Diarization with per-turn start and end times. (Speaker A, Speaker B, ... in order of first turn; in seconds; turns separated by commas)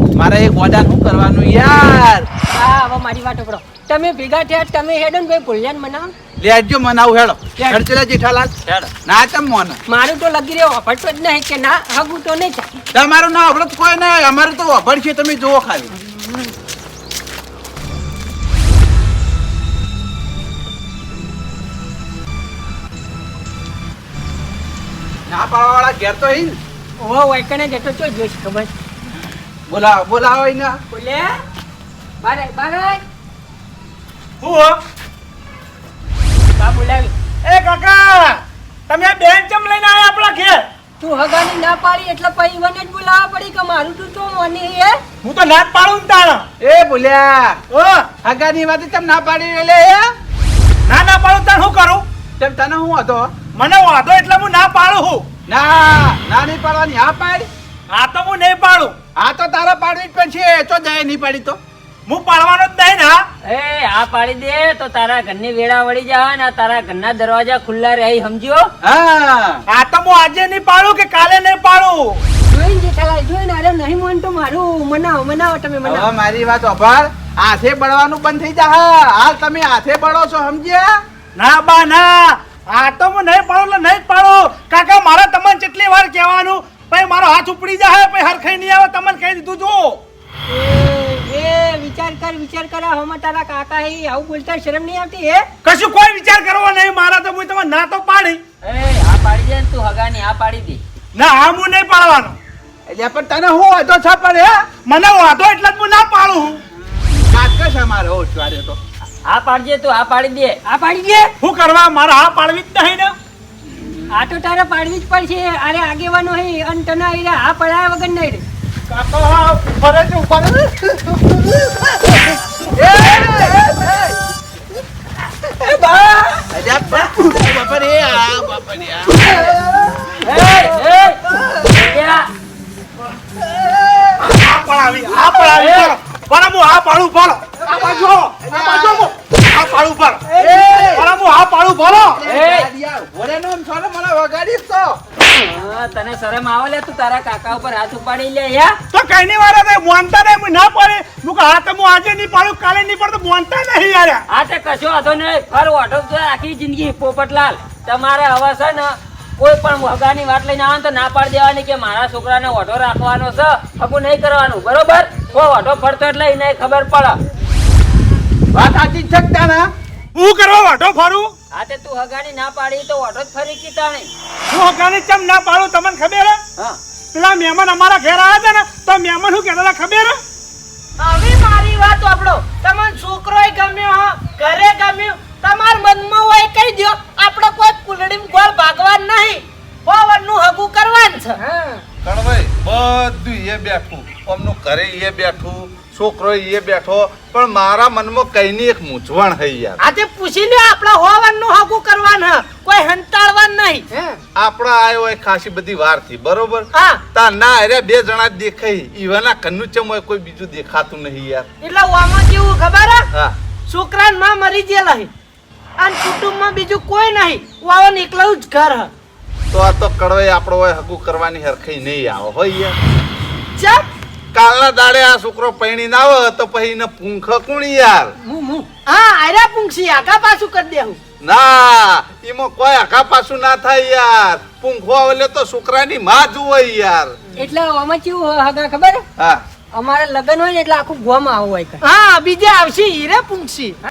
Speaker A: 0.1-2.3, Speaker B: 2.5-6.1, Speaker A: 6.4-8.5, Speaker C: 8.7-8.9, Speaker A: 9.1-9.8, Speaker B: 9.9-12.7, Speaker A: 12.9-15.9, Speaker A: 25.3-26.6, Speaker B: 27.0-28.7, Speaker A: 29.7-30.8, Speaker B: 30.9-31.3, Speaker B: 32.2-33.0, Speaker D: 34.4-34.8, Speaker B: 36.6-37.1, Speaker D: 37.5-40.6, Speaker B: 41.0-45.0, Speaker D: 45.2-46.5, Speaker A: 46.6-47.6, Speaker D: 47.7-48.1, Speaker A: 48.2-50.1, Speaker D: 50.9-52.0, Speaker A: 52.4-53.3, Speaker D: 53.6-55.2, Speaker A: 55.5-57.5, Speaker D: 57.9-58.9, Speaker A: 59.2-61.6, Speaker D: 62.1-63.2, Speaker C: 63.5-68.7, Speaker A: 68.8-69.6, Speaker D: 69.7-72.2, Speaker B: 72.5-76.1, Speaker A: 75.8-80.9, Speaker D: 81.4-90.0, Speaker B: 90.5-95.5, Speaker D: 95.7-98.4, Speaker C: 98.6-100.8, Speaker D: 101.2-102.4, Speaker A: 102.9-104.6, Speaker D: 104.9-106.6, Speaker A: 106.9-108.8, Speaker C: 109.3-110.6, Speaker B: 110.7-111.3, Speaker D: 111.4-113.1, Speaker B: 114.1-118.4, Speaker D: 118.9-121.3, Speaker A: 122.7-124.1, Speaker A: 126.5-130.6, Speaker C: 130.2-132.2, Speaker A: 133.3-134.3, Speaker D: 134.3-142.2, Speaker C: 135.5-135.9, Speaker A: 137.6-139.1, Speaker A: 140.4-141.1, Speaker A: 141.9-145.0, Speaker C: 142.3-142.7, Speaker C: 145.3-148.8, Speaker D: 148.9-154.2, Speaker C: 154.3-167.2, Speaker A: 168.5-169.7, Speaker D: 170.2-171.3, Speaker C: 171.5-174.1, Speaker D: 174.5-176.4, Speaker D: 177.1-180.2, Speaker E: 181.0-191.4, Speaker B: 191.4-191.8, Speaker F: 192.0-199.8, Speaker E: 199.8-204.1, Speaker F: 204.4-211.5, Speaker E: 206.7-207.0, Speaker E: 211.6-213.1, Speaker E: 213.7-215.1, Speaker E: 215.8-218.9, Speaker F: 219.5-222.8, Speaker E: 223.6-223.9, Speaker F: 224.3-228.1, Speaker B: 228.2-228.7, Speaker E: 228.9-231.0, Speaker F: 231.2-237.1, Speaker B: 237.4-239.0, Speaker B: 239.8-241.8, Speaker E: 241.8-243.8